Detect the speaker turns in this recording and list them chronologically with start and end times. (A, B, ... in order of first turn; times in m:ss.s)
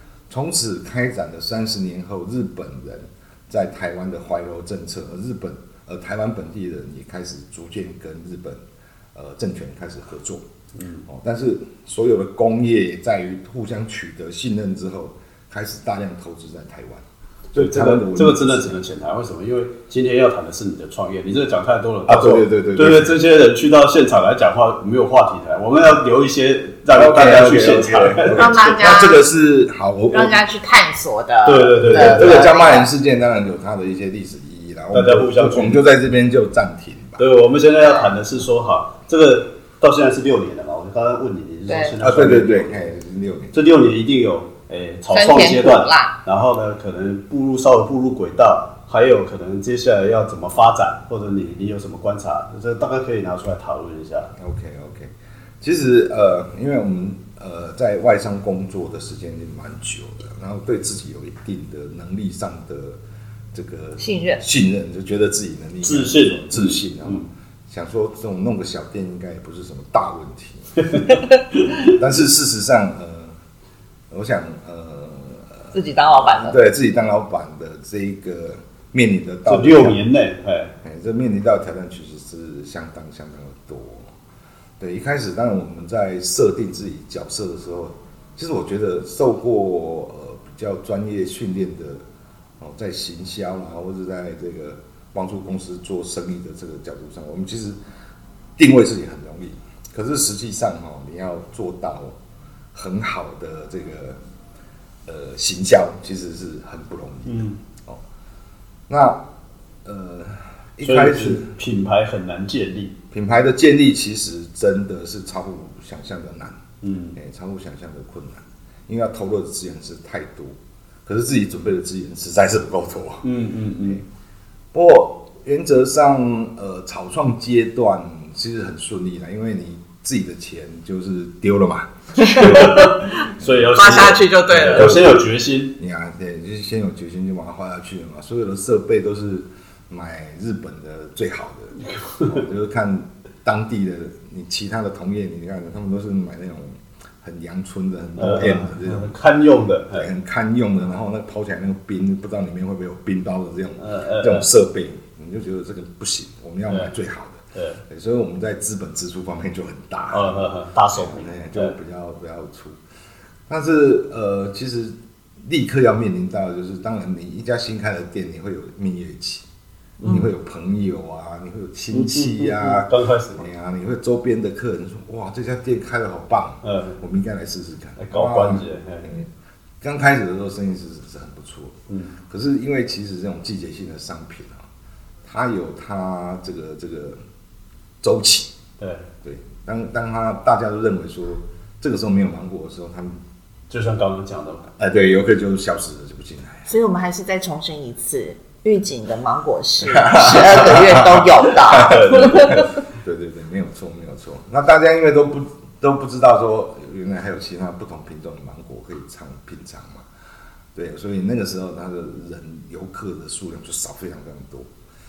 0:00.3-0:08.6 A
0:09.1-0:10.4 A
0:10.7-0:11.0 B
0:11.0-0:18.8 A
0:17.5-0:28.7 B
0:22.1-0:23.2 A
0:26.9-0:30.4 A
0:28.3-0:29.2 C
0:30.1-0:32.9 C
0:31.4-0:32.5 B
0:31.8-0:37.2 A
0:34.9-0:35.8 B
0:37.2-0:42.9 B
0:37.8-0:38.1 C
0:41.7-0:42.0 C
0:42.0-0:43.6 A
0:43.5-0:54.3 B
0:45.1-0:46.2 C
0:54.3-1:03.0 A
1:03.5-1:10.8 A
1:04.0-1:04.4 C
1:05.8-1:07.2 B
1:10.8-1:12.0 B
1:11.8-1:13.4 A
1:14.1-1:20.0 A
1:15.7-1:16.6 C
1:19.5-1:20.7 B
1:20.8-1:24.1 A
1:24.8-1:32.0 A
1:32.6-1:37.8 A
1:38.6-1:42.2 A
1:42.7-1:44.2 A
1:45.0-1:48.0 A
1:47.2-1:47.6 B
1:48.9-1:49.2 A
1:49.8-1:51.5 A
1:50.8-1:53.0 B
1:53.1-1:56.6 A
1:56.8-1:57.2 B
1:57.1-2:03.2 A
2:03.2-2:04.0 B
2:04.7-2:12.7 A
2:12.2-2:13.2 C
2:12.2-2:15.7 B
2:13.4-2:15.2 A
2:13.7-2:15.2 C
2:15.8-2:29.1 A
2:21.8-2:22.4 B
2:28.2-2:30.1 B
2:29.9-2:42.8 A
2:33.8-2:34.5 B
2:36.7-2:36.9 B
2:37.5-2:37.8 B
2:40.1-2:41.8 B
2:43.5-2:49.4 A
2:50.0-2:50.3 B
2:50.0-2:59.3 A
2:51.9-2:53.4 B
2:56.6-2:57.0 B
2:58.0-2:59.1 B
2:59.8-3:04.7 A
3:01.9-3:02.1 B
3:05.2-3:07.2 A
3:08.0-3:08.5 A
3:08.8-3:09.1 B
3:09.2-3:13.2 A
3:13.7-3:14.7 B
3:14.8-3:16.7 A
3:16.7-3:22.7 C
3:19.8-3:30.1 A
3:21.7-3:22.6 B
3:30.7-3:34.7 A